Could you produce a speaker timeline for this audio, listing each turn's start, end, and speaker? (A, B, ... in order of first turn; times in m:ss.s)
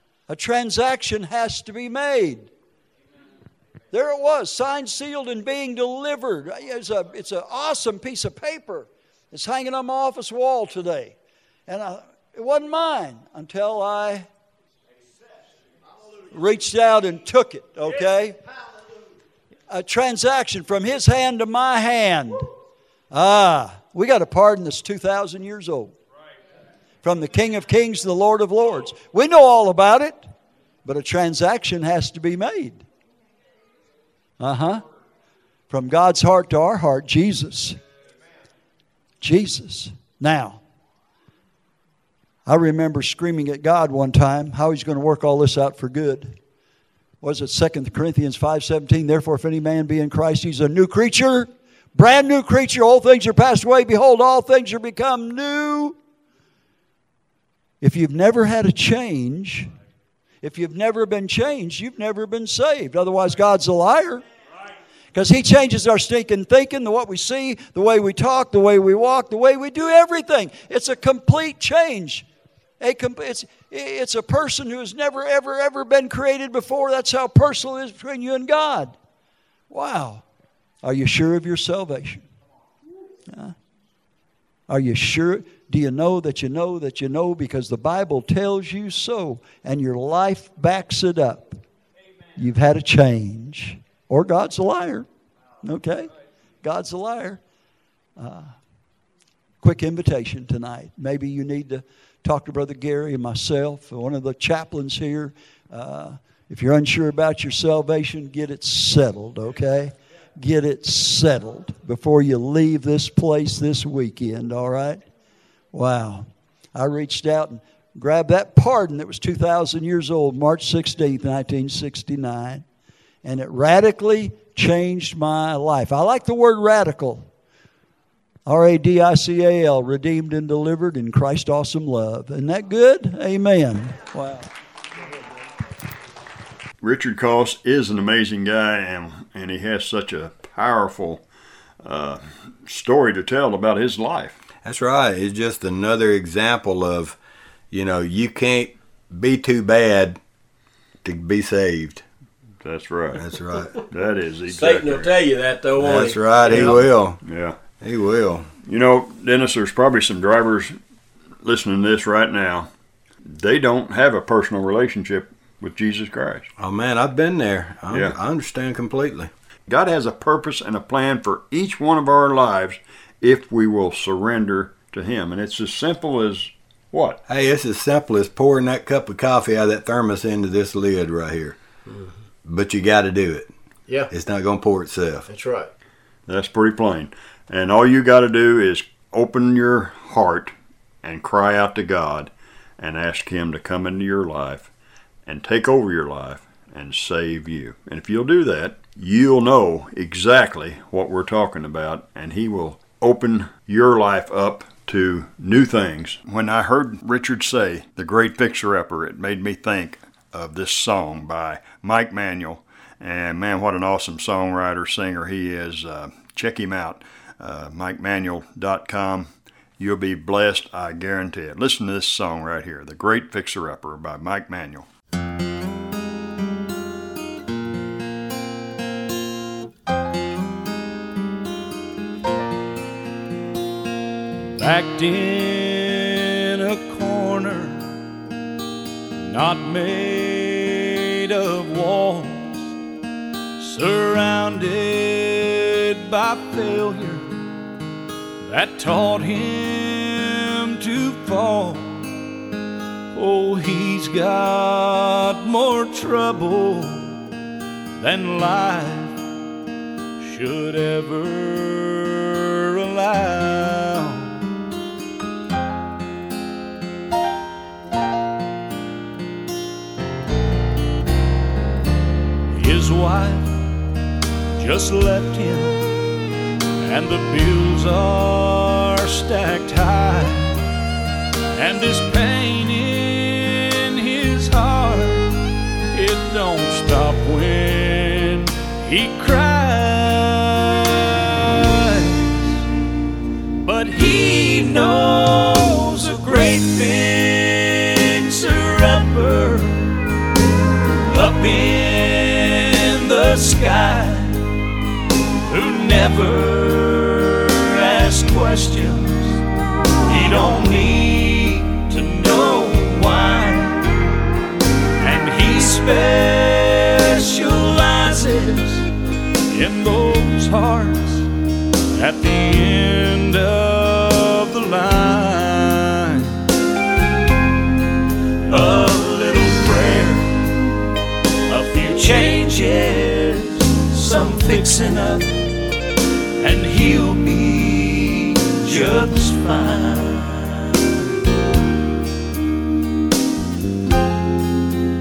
0:00.3-0:02.5 A
0:03.9-0:11.2 A
0:11.7-0:14.3 A
0:16.3-0:18.4 A
0:19.7-0:22.5 A
0:23.1-0:25.9 A
0:27.0-0:30.2 A
0:30.8-0:32.8 A
0:34.4-0:34.8 A
0:35.7-0:37.8 A
0:39.2-0:40.6 A
0:42.5-0:46.4 A
0:47.2-0:56.0 A
0:57.8-0:59.7 A
1:00.4-1:04.2 A
1:05.1-1:12.3 A
1:12.8-1:19.0 A
1:19.7-1:20.2 A
1:20.8-1:22.3 A
1:23.3-1:23.6 A
1:24.7-1:31.6 A
1:32.4-1:35.1 A
1:35.6-1:36.1 A
1:36.6-1:37.4 A
1:38.2-1:38.5 A
1:39.6-1:55.0 A
1:55.7-2:02.6 A
2:03.2-2:07.3 A
2:08.5-2:14.5 A
2:16.8-2:21.2 B
2:21.8-2:24.4 B
2:24.6-2:27.2 C
2:27.7-2:30.2 C
2:31.0-2:32.0 C
2:32.6-2:33.2 B
2:33.2-2:33.8 C
2:33.8-2:35.1 B
2:34.5-2:36.8 D
2:35.8-2:37.2 C
2:36.5-2:37.6 B
2:37.8-2:38.5 C
2:38.7-2:40.8 B
2:41.4-2:42.7 B
2:43.3-2:46.5 B
2:46.6-2:49.3 C
2:47.9-2:48.2 B
2:49.7-2:57.2 B
2:57.3-3:01.6 C
3:01.9-3:02.1 D
3:02.4-3:03.5 C
3:04.1-3:05.3 C
3:05.3-3:05.7 D
3:06.3-3:14.7 B
3:15.3-3:44.9 B
3:54.6-3:57.9 E
3:59.3-4:02.8 E
4:03.6-4:07.3 E
4:08.4-4:12.1 E
4:13.1-4:17.2 E
4:18.0-4:19.2 E
4:20.2-4:24.4 E
4:32.5-4:33.6 E
4:34.6-4:36.0 E
4:36.8-4:40.6 E
4:41.6-4:52.6 E
4:53.6-4:59.9 E
5:01.1-5:04.5 E
5:05.5-5:09.4 E
5:10.1-5:13.9 E
5:15.0-5:18.9 E
5:19.5-5:21.3 E
5:22.0-5:26.4 E
5:28.5-5:30.5 E
5:31.5-5:35.4 E
5:36.4-5:40.6 E